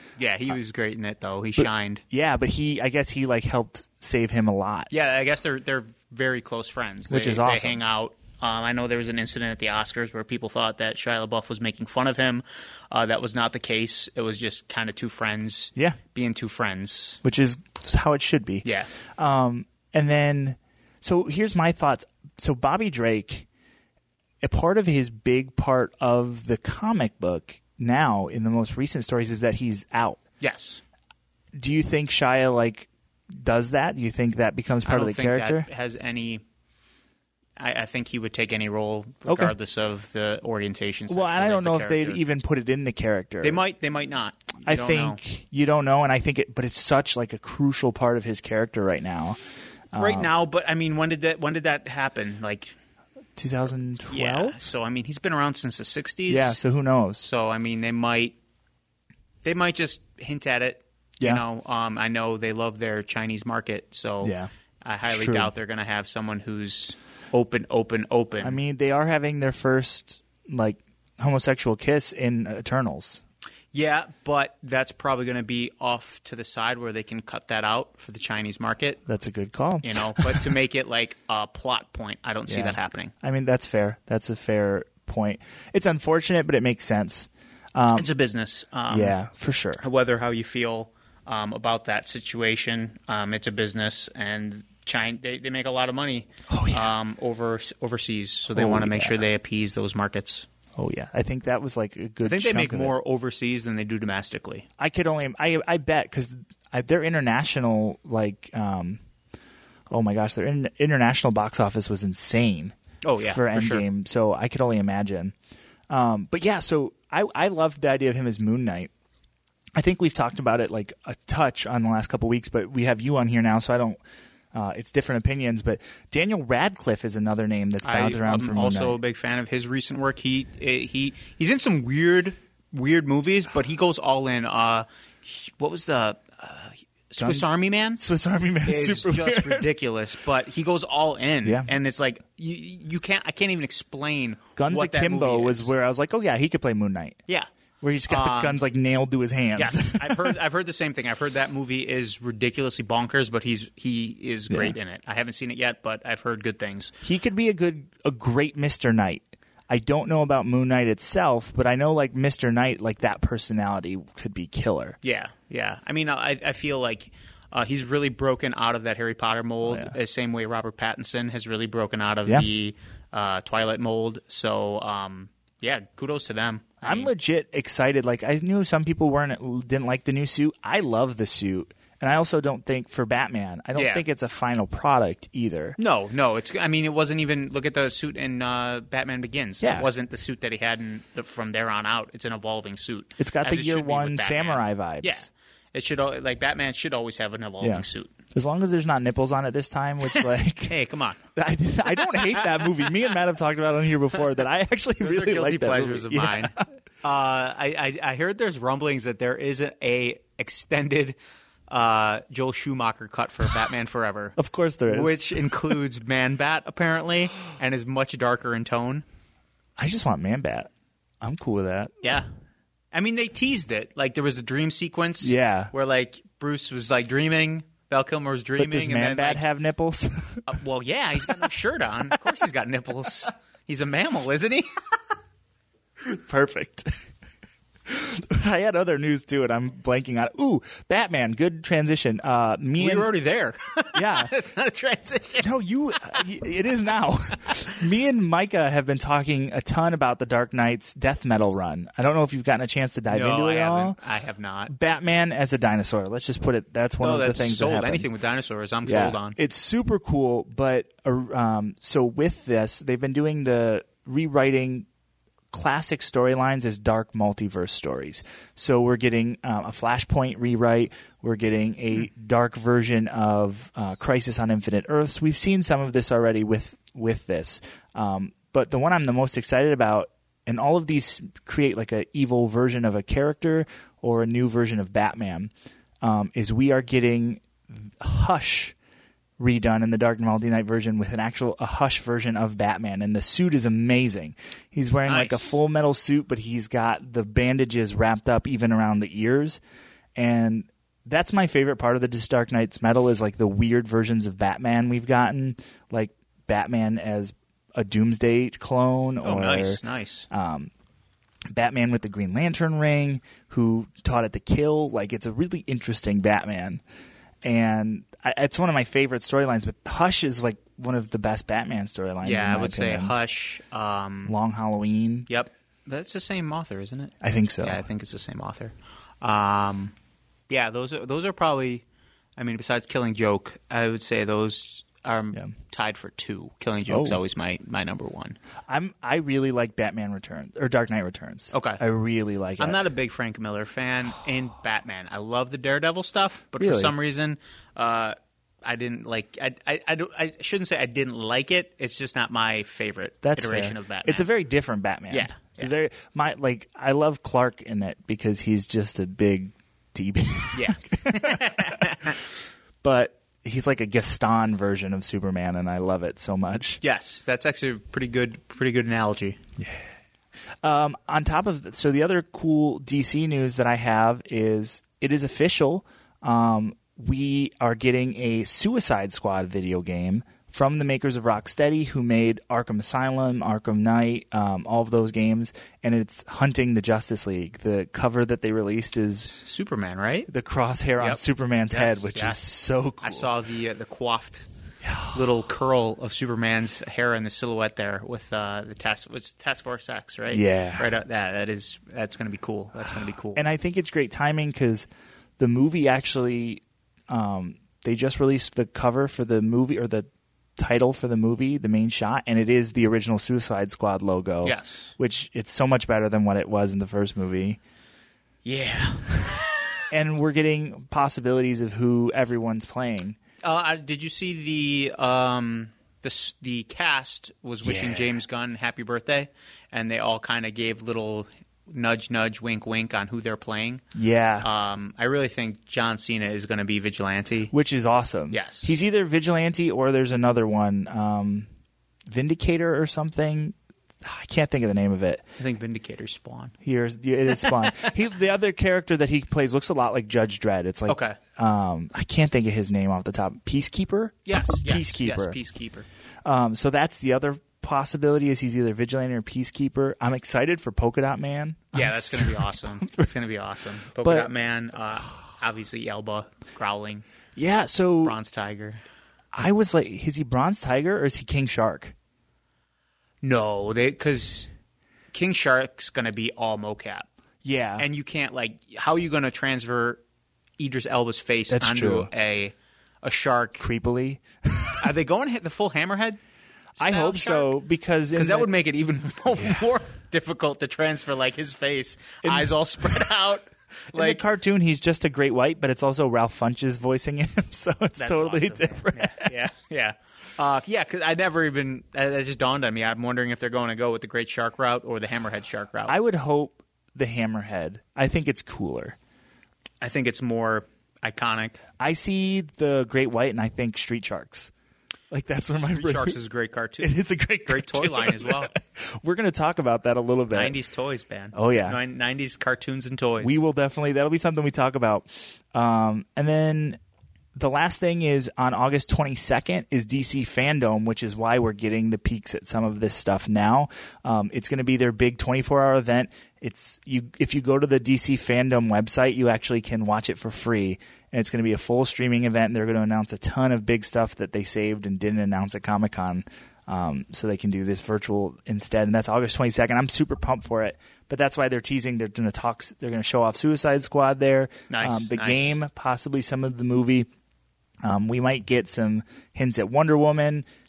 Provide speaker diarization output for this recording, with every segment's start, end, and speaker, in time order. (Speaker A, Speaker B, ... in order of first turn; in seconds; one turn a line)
Speaker A: 0.2-2.0
Speaker B: 1.6-4.9
Speaker A: 4.9-17.2
Speaker B: 7.1-7.8
Speaker B: 17.2-18.6
Speaker B: 19.2-23.4
Speaker B: 24.4-30.2
Speaker A: 30.4-30.8
Speaker B: 31.6-35.7
Speaker A: 34.8-36.4
Speaker A: 37.6-42.2
Speaker B: 39.2-39.5
Speaker B: 41.1-43.6
Speaker A: 43.4-45.2
Speaker B: 44.6-49.4
Speaker B: 49.9-50.3
Speaker A: 50.0-52.7
Speaker B: 53.4-54.7
Speaker A: 54.1-56.6
Speaker B: 56.3-57.3
Speaker A: 57.2-58.4
Speaker A: 59.4-68.6
Speaker B: 64.2-64.5
Speaker B: 65.0-65.5
Speaker B: 68.4-73.2
Speaker A: 73.7-79.0
Speaker B: 79.1-80.5
Speaker A: 79.8-83.1
Speaker B: 82.5-88.1
Speaker A: 87.9-89.2
Speaker B: 88.9-89.8
Speaker A: 89.8-100.5
Speaker B: 96.5-96.9
Speaker B: 98.5-99.2
Speaker B: 100.8-103.0
Speaker A: 102.2-104.7
Speaker B: 104.8-109.0
Speaker B: 109.9-112.7
Speaker A: 113.0-113.8
Speaker B: 113.3-115.3
Speaker B: 115.9-118.9
Speaker B: 119.7-124.0
Speaker B: 124.5-128.9
Speaker A: 127.8-138.0
Speaker B: 137.2-139.7
Speaker A: 138.6-145.7
Speaker B: 141.4-141.7
Speaker B: 144.6-147.2
Speaker B: 147.8-150.4
Speaker A: 148.1-148.6
Speaker A: 149.6-156.9
Speaker B: 154.5-154.7
Speaker B: 157.0-165.0
Speaker A: 165.0-177.1
Speaker B: 169.6-169.9
Speaker B: 176.8-185.8
Speaker A: 183.7-184.0
Speaker A: 185.8-198.1
Speaker B: 189.6-189.9
Speaker B: 193.2-195.3
Speaker B: 197.6-200.8
Speaker A: 200.7-201.2
Speaker B: 201.3-206.7
Speaker A: 205.0-211.2
Speaker A: 211.7-214.4
Speaker B: 214.4-215.8
Speaker A: 214.9-219.0
Speaker B: 219.8-220.7
Speaker B: 221.2-221.9
Speaker A: 222.0-222.3
Speaker A: 222.9-229.4
Speaker B: 225.2-225.7
Speaker B: 228.6-230.4
Speaker A: 230.4-234.7
Speaker B: 236.0-236.9
Speaker B: 237.8-243.1
Speaker A: 242.8-245.5
Speaker B: 243.9-244.3
Speaker B: 245.4-254.0
Speaker A: 253.1-254.7
Speaker B: 254.7-258.1
Speaker A: 257.0-259.4
Speaker B: 258.8-264.9
Speaker B: 265.5-285.5
Speaker B: 286.0-288.7
Speaker B: 289.4-299.6
Speaker A: 295.1-295.6
Speaker B: 300.1-310.7
Speaker A: 309.2-310.3
Speaker B: 311.5-316.8
Speaker B: 317.4-323.1
Speaker A: 322.2-324.3
Speaker B: 324.2-325.3
Speaker A: 325.3-329.9
Speaker B: 327.2-327.8
Speaker A: 330.5-331.8
Speaker A: 332.4-338.4
Speaker B: 336.9-337.2
Speaker B: 338.7-342.8
Speaker A: 341.5-341.8
Speaker A: 342.6-354.3
Speaker B: 346.6-346.9
Speaker B: 353.2-361.9
Speaker A: 355.1-355.7
Speaker A: 360.5-362.2
Speaker B: 362.8-366.8
Speaker A: 366.8-369.4
Speaker B: 369.6-369.9
Speaker B: 370.6-389.4
Speaker A: 389.3-390.3
Speaker B: 390.3-393.3
Speaker A: 391.0-392.4
Speaker A: 393.0-394.4
Speaker B: 394.8-395.1
Speaker A: 395.1-403.4
Speaker B: 400.3-400.9
Speaker B: 403.3-404.9
Speaker B: 405.4-417.6
Speaker A: 414.4-414.9
Speaker A: 418.4-419.8
Speaker B: 419.9-423.2
Speaker A: 423.4-433.8
Speaker B: 427.6-428.1
Speaker B: 433.9-434.5
Speaker A: 434.4-437.5
Speaker B: 437.5-441.5
Speaker A: 438.3-438.8
Speaker B: 442.1-445.2
Speaker A: 445.4-446.5
Speaker B: 446.6-455.4
Speaker A: 450.9-451.2
Speaker A: 454.2-455.9
Speaker B: 456.2-463.1
Speaker A: 461.7-467.0
Speaker B: 464.0-464.3
Speaker B: 467.4-468.2
Speaker A: 468.0-468.8
Speaker B: 469.3-471.9
Speaker A: 473.2-474.5
Speaker A: 475.1-477.1
Speaker B: 477.4-477.9
Speaker A: 477.8-480.0
Speaker A: 480.6-483.6
Speaker B: 481.5-482.1
Speaker B: 483.6-484.8
Speaker A: 484.8-486.2
Speaker A: 486.8-487.5
Speaker B: 486.8-488.5
Speaker A: 488.1-494.2
Speaker B: 492.2-492.5
Speaker B: 493.9-499.3
Speaker A: 498.0-505.9
Speaker B: 505.9-508.9
Speaker A: 509.8-511.6
Speaker B: 511.8-514.5
Speaker B: 515.1-516.2
Speaker A: 515.7-518.5
Speaker B: 516.8-520.6
Speaker A: 520.3-523.4
Speaker B: 521.3-521.8
Speaker B: 523.2-526.8
Speaker B: 527.3-557.1
Speaker A: 554.7-555.5
Speaker B: 557.8-560.5